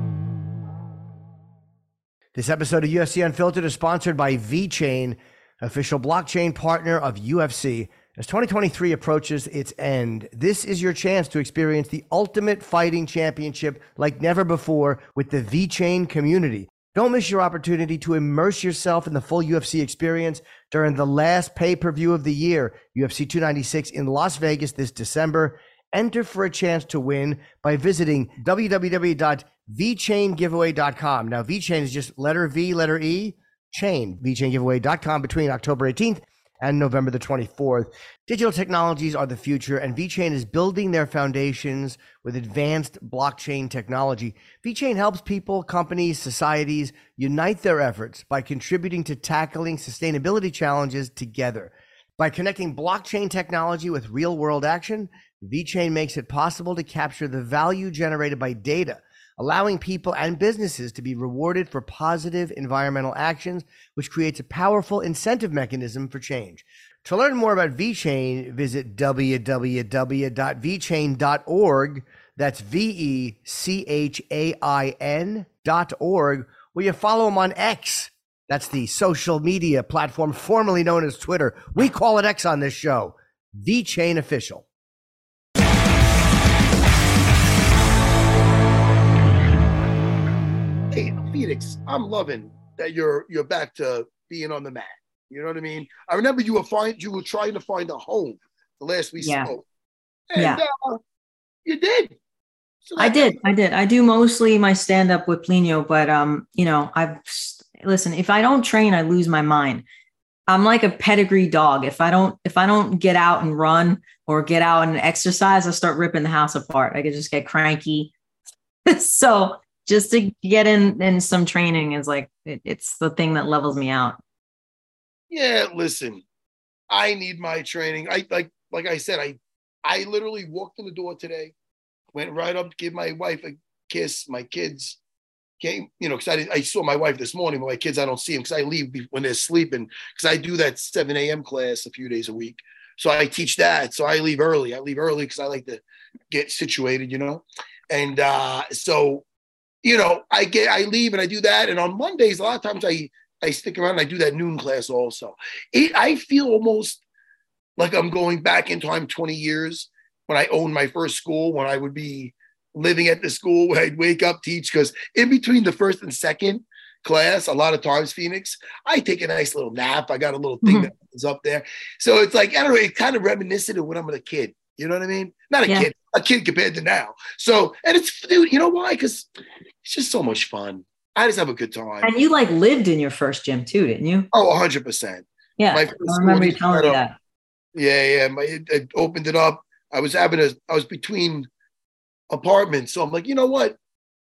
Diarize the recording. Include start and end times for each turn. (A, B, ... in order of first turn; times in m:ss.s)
0:02.3-1:24.6 A
1:30.9-1:39.6 B
1:39.2-1:39.5 C
1:40.3-1:41.0 B
1:40.4-1:40.6 C
1:41.6-1:42.1 B
1:42.8-1:43.4 B
1:43.0-1:49.8 C
1:50.5-1:58.1 C
1:58.8-2:04.2 C
2:05.3-2:06.2 B
2:06.9-2:11.5 B
2:12.1-2:15.0 B
2:15.6-2:29.2 B
2:29.8-2:37.0 B
2:37.8-2:59.3 B
2:50.6-2:50.9 C
2:59.8-3:02.1 B
3:02.0-3:04.3 C
3:04.3-3:07.0 B
3:05.6-3:07.1 C
3:07.7-3:11.5 B
3:12.3-3:13.8 B